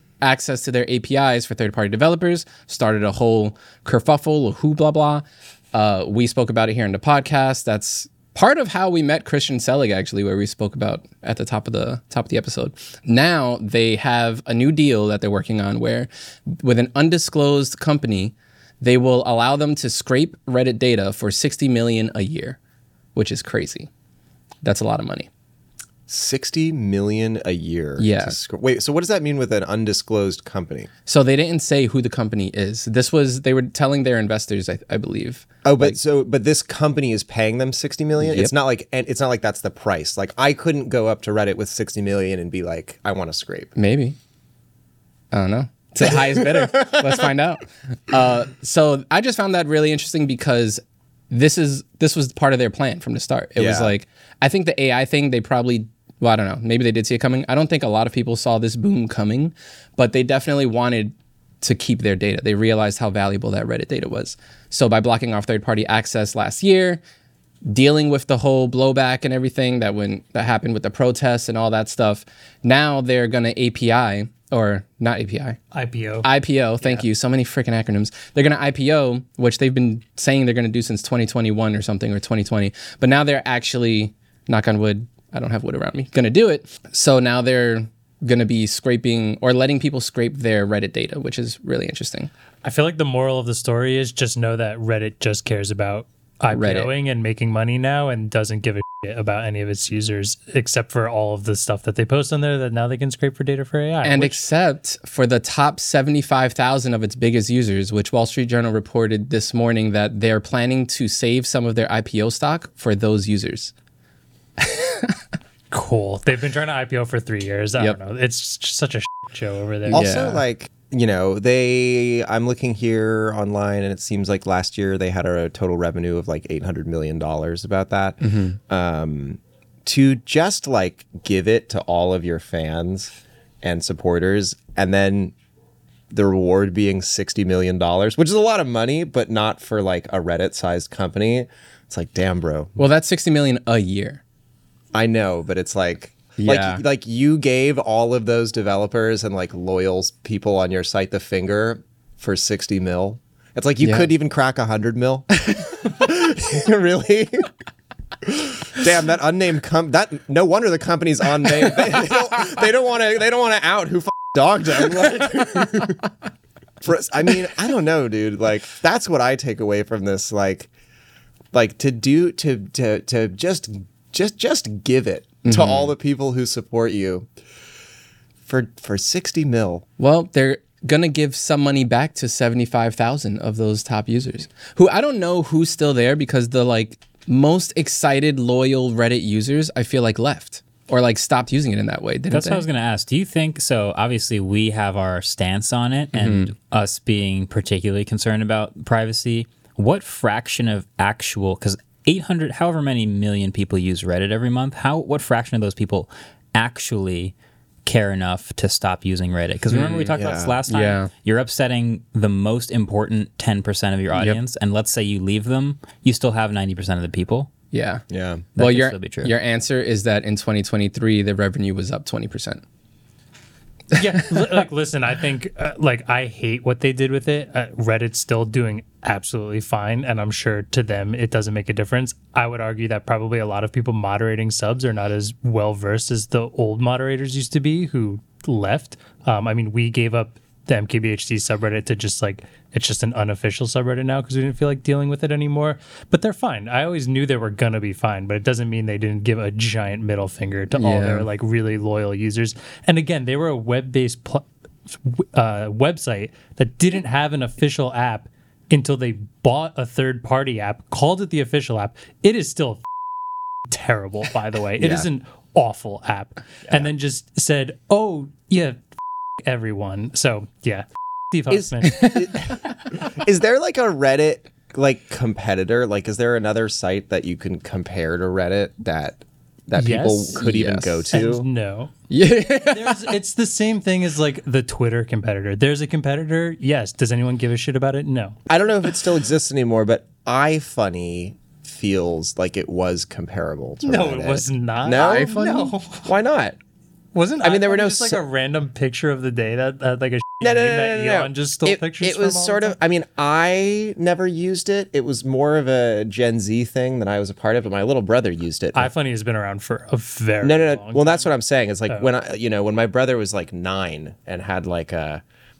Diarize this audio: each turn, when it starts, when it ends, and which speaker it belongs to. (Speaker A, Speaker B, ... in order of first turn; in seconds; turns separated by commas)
Speaker A: 0.2-22.6, Speaker A: 23.1-23.9, Speaker A: 24.6-25.3, Speaker B: 26.1-30.9, Speaker A: 28.0-28.4, Speaker A: 31.1-36.0, Speaker B: 35.6-43.7, Speaker A: 38.2-38.5, Speaker A: 43.8-44.2, Speaker A: 45.3-67.0, Speaker B: 46.0-47.2, Speaker B: 53.6-53.9, Speaker A: 67.6-75.6, Speaker C: 75.7-76.3, Speaker A: 76.2-92.3, Speaker C: 92.6-104.4, Speaker A: 96.5-96.9, Speaker A: 104.0-113.7, Speaker A: 114.6-115.1, Speaker C: 115.7-120.0, Speaker A: 119.9-120.4, Speaker B: 119.9-135.3, Speaker A: 128.2-128.6, Speaker B: 136.1-142.8, Speaker A: 142.8-144.2, Speaker B: 144.9-157.5, Speaker A: 146.4-146.8, Speaker A: 153.8-154.1, Speaker B: 158.2-166.0, Speaker B: 166.8-170.7, Speaker B: 171.5-177.3, Speaker A: 175.4-175.9, Speaker B: 178.5-179.8, Speaker A: 180.0-192.6, Speaker D: 192.3-207.3, Speaker A: 196.1-196.5, Speaker D: 207.9-217.5, Speaker A: 209.7-210.1, Speaker B: 210.1-210.6, Speaker A: 210.7-211.1, Speaker A: 214.1-214.4, Speaker A: 217.7-218.0, Speaker B: 218.1-218.4, Speaker D: 218.6-219.3, Speaker A: 218.6-222.6, Speaker C: 223.9-262.8, Speaker A: 250.8-251.3, Speaker C: 263.7-268.8, Speaker B: 264.8-265.1, Speaker C: 269.4-272.3, Speaker B: 271.5-281.4, Speaker A: 271.8-272.3, Speaker C: 279.7-280.4, Speaker A: 280.3-281.1, Speaker C: 281.1-281.9, Speaker A: 282.1-283.2, Speaker C: 282.7-288.4, Speaker B: 288.5-296.6, Speaker C: 293.8-295.4, Speaker A: 294.9-295.8, Speaker C: 297.1-302.7, Speaker B: 297.4-298.2, Speaker B: 300.4-308.9, Speaker C: 308.7-311.3, Speaker B: 310.4-315.2